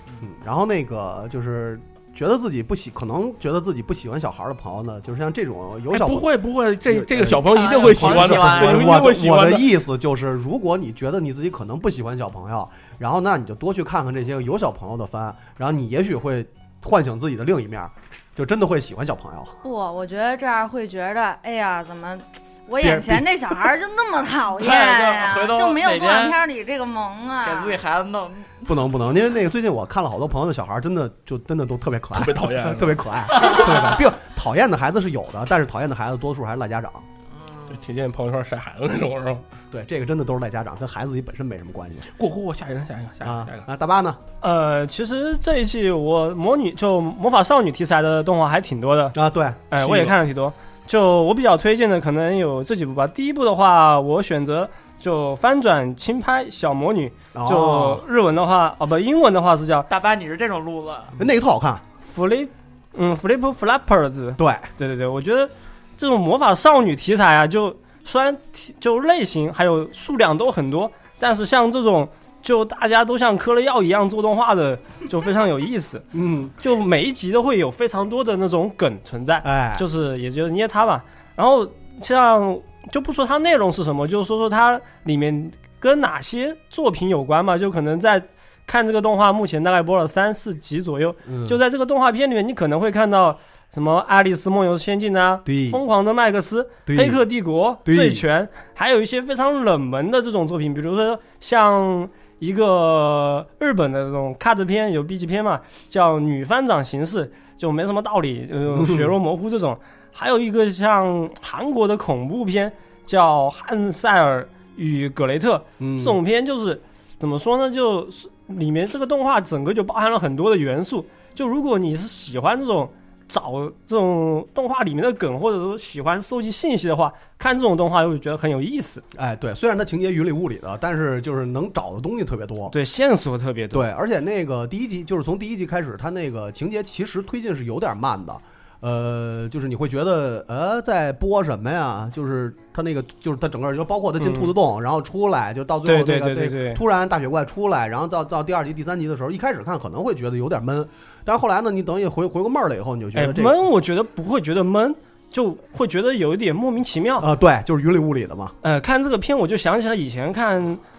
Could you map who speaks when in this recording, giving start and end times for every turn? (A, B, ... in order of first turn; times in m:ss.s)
0:00.2-0:06.3 A
0:05.9-0:09.7 B
0:06.9-0:19.6 A
0:07.4-0:09.0 C
0:19.6-0:27.8 D
0:22.8-0:23.6 A
0:24.6-0:26.4 C
0:27.4-0:28.8 C
0:28.7-0:37.1 A
0:32.2-0:33.5 B
0:33.4-0:33.8 C
0:37.3-0:37.8 C
0:37.7-0:39.4 B
0:39.7-0:42.1 A
0:42.2-0:43.7 B
0:43.2-0:44.2 A
0:44.4-0:49.2 E
0:49.1-0:50.2 A
0:49.7-0:59.9 E
0:57.3-0:58.0 A
0:59.9-1:01.1 C
1:01.2-1:01.8 A
1:02.1-1:16.0 E
1:04.4-1:04.7 A
1:16.1-1:16.5 A
1:16.6-2:09.0 E
1:19.4-1:19.8 A
1:31.3-1:31.6 A
1:35.5-1:35.8 A
1:36.9-1:37.2 A
1:37.8-1:38.2 A
1:48.7-1:49.1 A
1:55.8-1:56.2 A
2:09.1-2:12.7 A
2:12.7-2:13.9 E
2:13.7-2:33.6 A
2:24.2-2:24.5 E
2:25.8-2:26.8 E
2:33.2-2:37.3 E
2:37.2-2:38.6 A
2:38.6-2:40.8 E